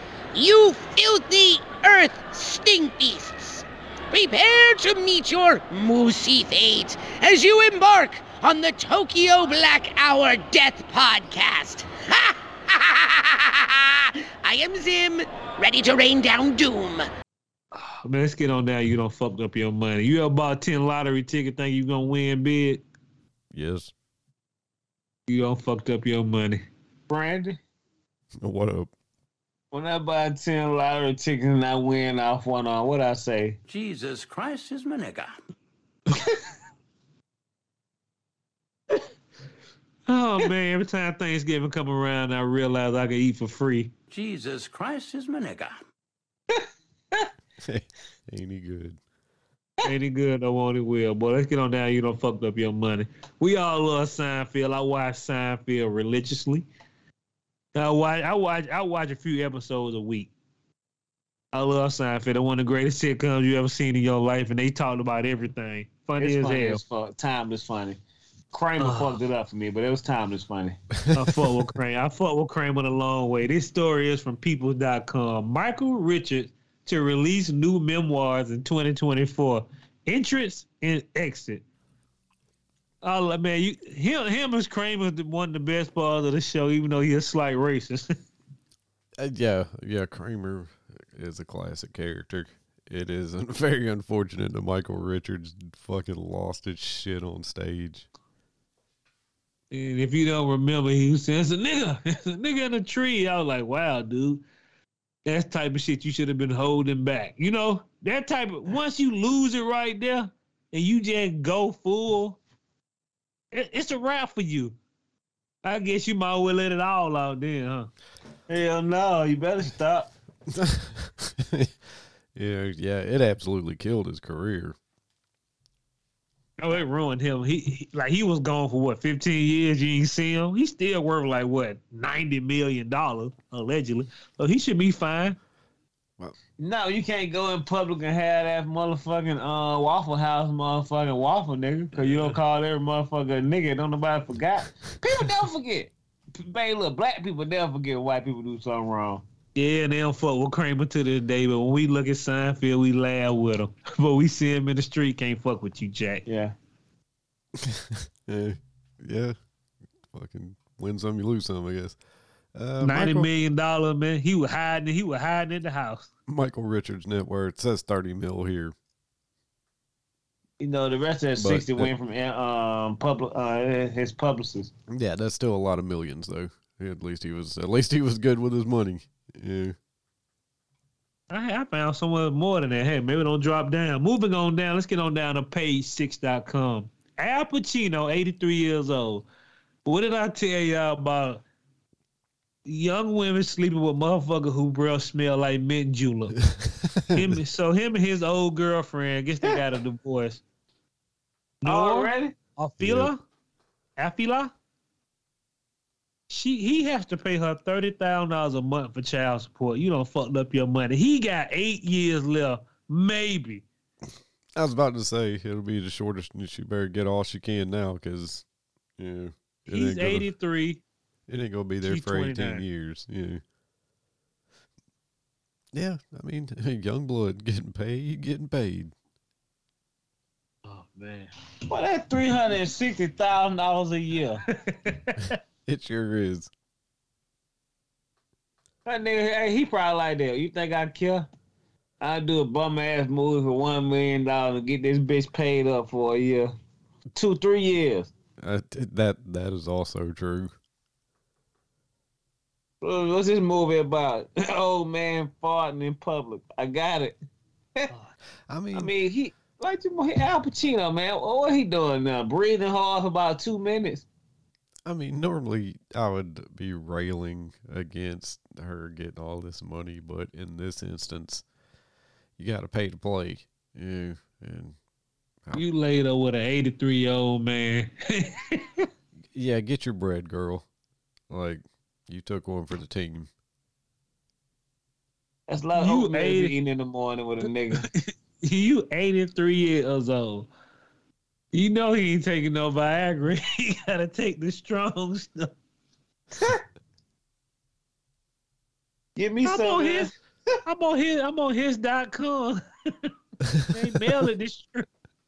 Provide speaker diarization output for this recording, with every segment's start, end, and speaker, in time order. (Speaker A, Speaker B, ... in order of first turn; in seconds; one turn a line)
Speaker A: 0.3-17.0
Speaker B: 17.7-22.8
Speaker C: 23.5-23.9
Speaker B: 25.3-26.6
Speaker D: 27.1-27.6
Speaker C: 28.4-28.9
Speaker D: 29.7-33.6
Speaker E: 33.7-35.4
Speaker B: 40.1-43.9
Speaker E: 44.1-45.8
Speaker D: 46.5-47.3
Speaker C: 47.6-49.0
Speaker B: 49.8-56.6
Speaker B: 57.7-60.3
Speaker B: 61.5-66.8
Speaker D: 66.2-68.0
Speaker D: 68.5-70.8
Speaker B: 68.8-69.2
Speaker C: 71.1-71.5
Speaker B: 71.1-81.6
Speaker B: 83.0-88.1
Speaker C: 89.2-98.1
Speaker B: 99.7-104.4
Speaker B: 105.2-112.4
Speaker B: 113.5-114.7
Speaker B: 115.6-117.9
Speaker D: 118.5-120.1
Speaker C: 120.5-121.7
Speaker C: 122.3-124.8
Speaker B: 126.6-135.4
Speaker D: 136.6-149.2
Speaker B: 149.5-156.2
Speaker D: 156.2-156.5
Speaker C: 157.6-159.3
Speaker C: 160.1-162.0
Speaker C: 162.5-163.3
Speaker B: 162.8-166.1
Speaker C: 166.3-168.7
Speaker D: 170.6-174.7
Speaker C: 171.4-171.9
Speaker C: 174.9-179.8
Speaker B: 181.3-189.3
Speaker B: 189.8-191.4
Speaker B: 192.6-196.4
Speaker C: 196.6-197.3
Speaker B: 197.1-200.4
Speaker B: 201.6-203.2
Speaker D: 201.7-202.3
Speaker C: 202.8-203.1
Speaker B: 204.0-204.5
Speaker B: 206.3-213.6
Speaker C: 214.5-218.4
Speaker C: 219.0-220.3
Speaker B: 219.7-220.8
Speaker C: 221.3-223.4
Speaker B: 221.8-222.6
Speaker C: 225.7-228.9
Speaker B: 230.6-231.3
Speaker D: 231.7-234.4
Speaker B: 234.5-235.4
Speaker C: 235.7-236.5
Speaker D: 238.8-241.3
Speaker D: 242.0-246.5
Speaker D: 247.1-248.1
Speaker C: 248.4-250.5
Speaker D: 252.8-257.2
Speaker C: 258.5-258.9
Speaker D: 258.7-264.1
Speaker C: 264.9-271.4
Speaker C: 272.4-274.8
Speaker B: 275.5-278.9
Speaker C: 279.3-280.7
Speaker C: 281.3-283.3
Speaker D: 285.5-287.8
Speaker B: 285.8-286.5
Speaker B: 287.8-290.5
Speaker B: 291.5-295.5
Speaker D: 296.3-296.6
Speaker D: 299.1-300.1
Speaker B: 299.4-300.1
Speaker B: 300.6-303.1
Speaker B: 303.6-304.9